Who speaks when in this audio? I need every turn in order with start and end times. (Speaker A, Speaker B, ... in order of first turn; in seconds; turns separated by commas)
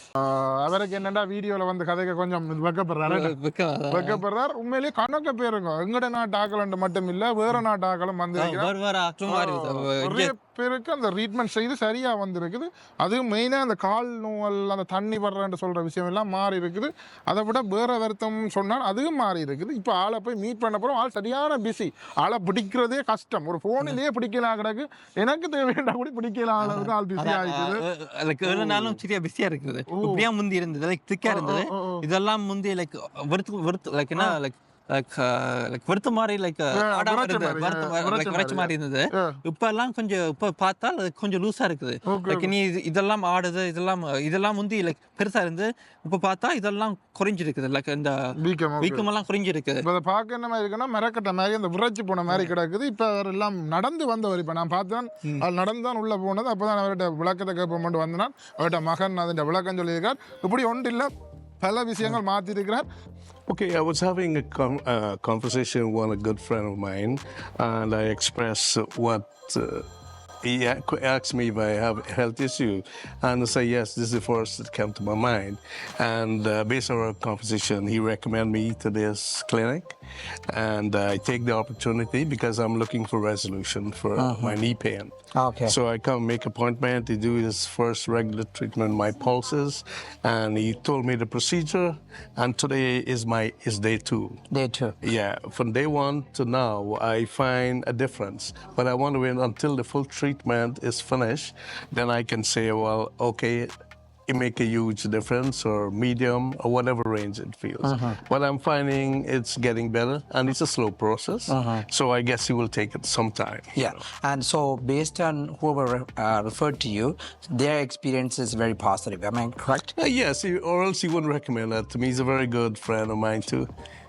Speaker A: 0.2-3.3, Speaker B: 3.1-4.2, Speaker A: 3.9-8.7, Speaker B: 8.4-10.3, Speaker A: 9.3-27.8, Speaker B: 26.6-49.9, Speaker A: 28.4-29.0, Speaker A: 29.9-30.2, Speaker A: 31.2-32.1, Speaker A: 36.7-39.4, Speaker A: 42.1-42.5, Speaker A: 48.4-49.1, Speaker A: 49.8-61.1, Speaker A: 61.6-62.9, Speaker C: 63.5-69.9, Speaker C: 70.4-80.0, Speaker C: 80.5-85.1, Speaker D: 84.2-84.6, Speaker D: 85.3-85.8, Speaker C: 85.7-94.5, Speaker D: 94.5-95.0, Speaker C: 95.0-103.7, Speaker C: 104.3-114.0, Speaker D: 107.8-108.2, Speaker D: 111.5-111.8, Speaker D: 113.8-119.9, Speaker C: 120.0-123.7